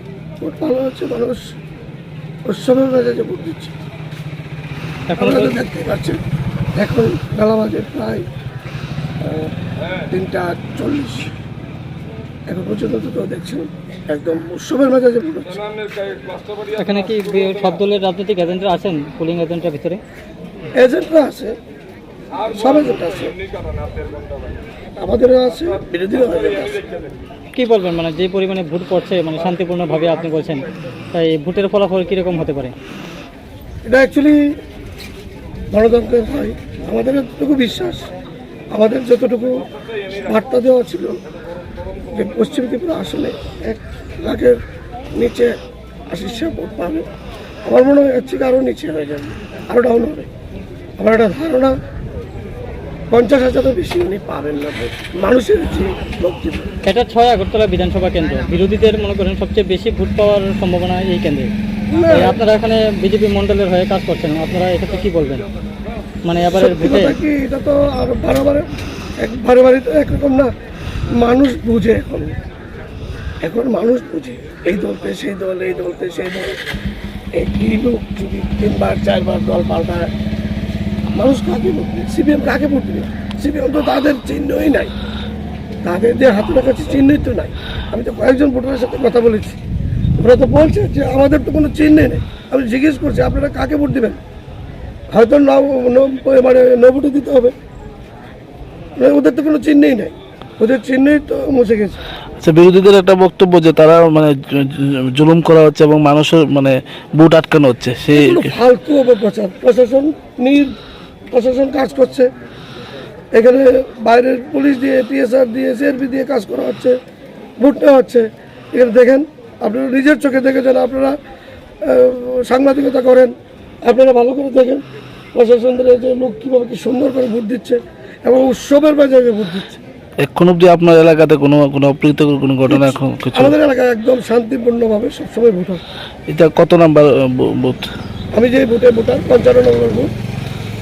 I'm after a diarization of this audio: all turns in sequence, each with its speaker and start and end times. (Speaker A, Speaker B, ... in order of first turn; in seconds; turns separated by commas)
Speaker A: 0.4-1.5, Speaker A: 2.4-3.7, Speaker B: 5.1-5.5, Speaker A: 5.2-6.2, Speaker A: 6.8-8.2, Speaker A: 9.2-11.3, Speaker A: 12.5-15.6, Speaker B: 16.7-20.0, Speaker A: 20.8-21.6, Speaker A: 22.4-23.4, Speaker A: 25.0-26.9, Speaker B: 27.5-32.7, Speaker A: 33.8-34.5, Speaker A: 35.7-38.1, Speaker A: 38.7-41.2, Speaker A: 42.1-44.6, Speaker A: 45.1-45.5, Speaker A: 46.1-47.1, Speaker A: 47.6-50.3, Speaker A: 51.0-51.7, Speaker A: 53.1-56.7, Speaker B: 56.8-61.5, Speaker A: 61.9-62.4, Speaker B: 62.1-65.5, Speaker B: 66.2-67.1, Speaker A: 66.5-68.7, Speaker A: 69.2-70.5, Speaker A: 71.1-72.3, Speaker A: 73.4-76.6, Speaker A: 77.3-80.1, Speaker A: 81.1-84.9, Speaker A: 85.8-89.6, Speaker A: 90.2-94.2, Speaker A: 95.1-97.5, Speaker A: 99.0-102.0, Speaker C: 102.4-108.5, Speaker A: 108.1-110.7, Speaker A: 111.3-112.3, Speaker A: 113.3-117.0, Speaker A: 117.6-121.1, Speaker A: 121.8-124.8, Speaker A: 125.3-129.8, Speaker C: 130.2-133.5, Speaker A: 132.7-135.8, Speaker C: 136.3-137.8, Speaker A: 138.3-140.1